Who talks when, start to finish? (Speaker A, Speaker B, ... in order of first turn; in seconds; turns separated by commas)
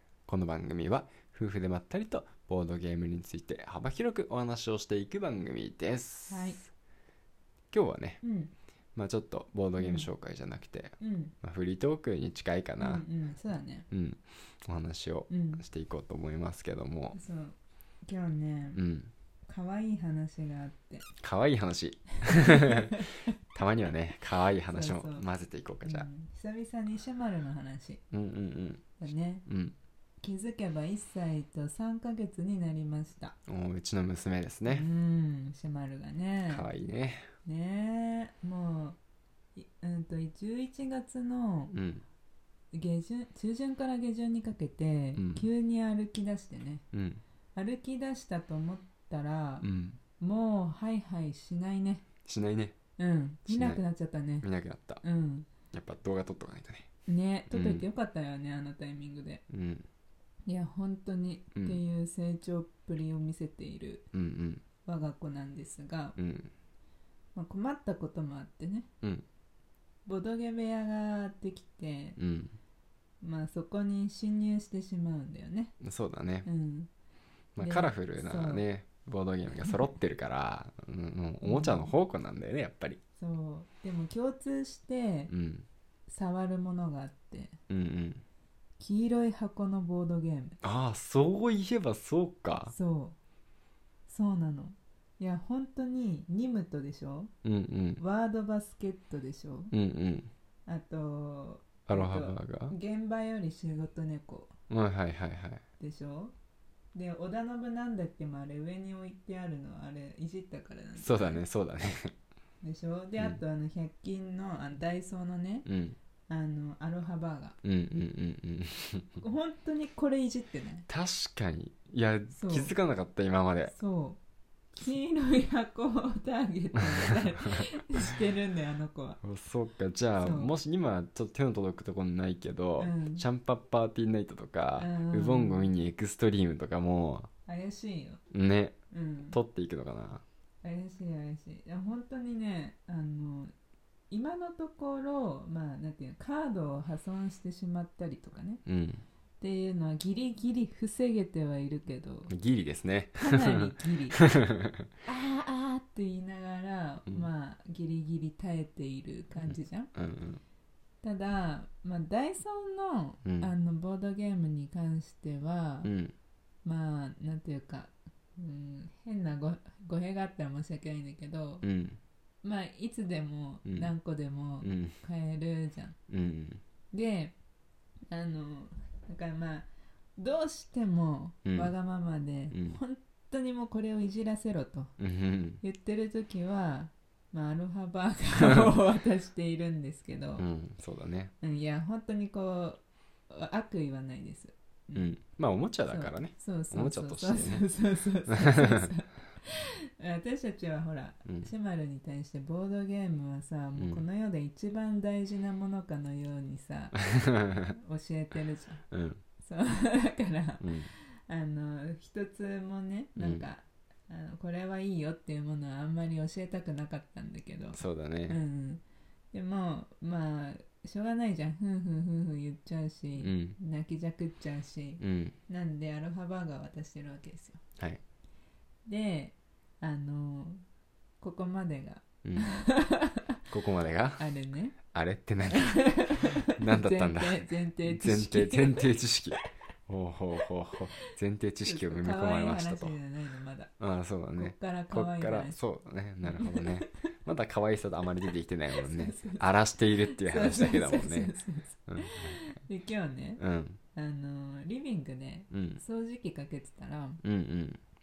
Speaker A: 0.3-6.6, Speaker B: 6.3-6.6, Speaker A: 7.7-8.2, Speaker B: 8.2-8.5, Speaker A: 8.9-13.0, Speaker B: 9.8-10.1, Speaker B: 11.0-11.3, Speaker B: 12.8-13.9, Speaker A: 13.9-17.2, Speaker B: 15.3-15.6, Speaker B: 17.1-18.8, Speaker A: 18.8-19.1, Speaker B: 19.5-21.1, Speaker A: 21.2-22.9, Speaker B: 22.3-23.3, Speaker A: 23.5-26.1, Speaker B: 24.7-25.3, Speaker B: 25.8-28.0, Speaker A: 28.1-28.9, Speaker B: 29.0-29.4, Speaker A: 29.5-29.8, Speaker B: 30.2-33.4, Speaker A: 33.5-34.9, Speaker B: 34.7-36.7, Speaker A: 36.5-37.3, Speaker B: 37.5-39.0, Speaker B: 39.5-41.7, Speaker A: 41.7-42.0, Speaker B: 42.7-46.9, Speaker A: 45.2-45.5, Speaker A: 46.9-47.2, Speaker B: 47.5-49.7, Speaker A: 49.6-50.0, Speaker B: 50.2-52.1, Speaker A: 52.2-52.8, Speaker B: 53.0-54.5, Speaker A: 53.5-53.8, Speaker A: 54.4-55.0, Speaker B: 55.0-55.5, Speaker A: 55.7-56.9, Speaker B: 57.1-59.4, Speaker A: 57.5-57.9, Speaker A: 59.5-59.9, Speaker B: 60.5-64.1, Speaker A: 64.1-64.6, Speaker B: 64.8-66.2, Speaker A: 66.2-66.5, Speaker B: 67.3-68.9, Speaker B: 70.1-72.2, Speaker A: 72.2-72.5, Speaker B: 73.2-75.8, Speaker A: 75.8-76.5, Speaker B: 76.5-76.9, Speaker A: 77.6-83.0, Speaker B: 77.6-78.7, Speaker B: 79.6-79.8, Speaker B: 81.4-81.9, Speaker B: 83.2-85.3, Speaker A: 85.3-85.7, Speaker B: 86.1-87.6, Speaker A: 87.7-88.2, Speaker B: 88.8-90.6, Speaker A: 90.6-92.7, Speaker B: 92.5-93.2, Speaker B: 94.1-97.3, Speaker A: 97.4-98.0, Speaker B: 98.0-99.7, Speaker A: 99.7-100.3, Speaker B: 100.7-104.5, Speaker A: 101.9-102.8, Speaker A: 104.7-105.6, Speaker B: 105.8-106.3, Speaker B: 106.9-111.4, Speaker A: 111.0-112.1, Speaker B: 112.6-115.7, Speaker A: 115.7-116.0, Speaker B: 116.3-117.6, Speaker A: 117.6-119.2, Speaker B: 119.2-120.9, Speaker A: 120.9-123.8, Speaker B: 122.3-122.7, Speaker B: 123.7-124.2, Speaker B: 124.8-129.2, Speaker A: 127.0-127.7, Speaker A: 129.2-137.3, Speaker B: 130.2-130.5, Speaker B: 132.8-133.2, Speaker B: 134.8-135.7, Speaker B: 137.5-138.2, Speaker A: 138.3-138.8, Speaker B: 138.9-139.4, Speaker A: 139.3-140.2, Speaker B: 140.6-143.5, Speaker B: 144.1-148.6, Speaker A: 148.7-149.0, Speaker B: 149.4-152.3, Speaker A: 152.3-154.8, Speaker B: 153.2-154.2, Speaker B: 155.1-159.9, Speaker A: 159.4-160.4, Speaker B: 161.0-165.9, Speaker A: 163.2-163.5, Speaker A: 165.8-166.1, Speaker B: 166.6-171.6, Speaker A: 171.6-172.0, Speaker B: 172.4-176.0, Speaker A: 173.7-173.9, Speaker A: 174.6-174.9, Speaker A: 176.1-176.6, Speaker B: 176.9-177.4, Speaker B: 178.1-184.9, Speaker A: 181.5-181.7, Speaker A: 182.5-182.8, Speaker A: 185.0-185.6, Speaker B: 185.6-190.5, Speaker A: 190.4-191.3, Speaker B: 191.4-195.1, Speaker A: 194.9-197.7, Speaker B: 195.9-207.0, Speaker A: 198.3-198.9, Speaker A: 203.8-204.0, Speaker A: 207.2-207.7, Speaker B: 207.7-208.8, Speaker A: 208.9-209.2, Speaker B: 209.4-227.6, Speaker A: 210.6-210.9, Speaker A: 213.2-213.5, Speaker A: 217.7-218.4, Speaker A: 223.2-223.6, Speaker A: 225.0-225.4, Speaker B: 228.9-230.6, Speaker B: 231.2-233.3, Speaker A: 233.5-234.2, Speaker B: 234.2-234.8, Speaker A: 234.9-235.9, Speaker B: 235.5-239.0, Speaker A: 236.6-242.9, Speaker B: 241.7-243.7, Speaker A: 243.8-251.3, Speaker B: 244.4-245.6, Speaker B: 246.2-246.8, Speaker B: 248.7-253.4, Speaker A: 251.9-252.4, Speaker A: 253.4-253.8, Speaker B: 253.9-257.2, Speaker A: 255.5-255.8, Speaker A: 257.2-257.8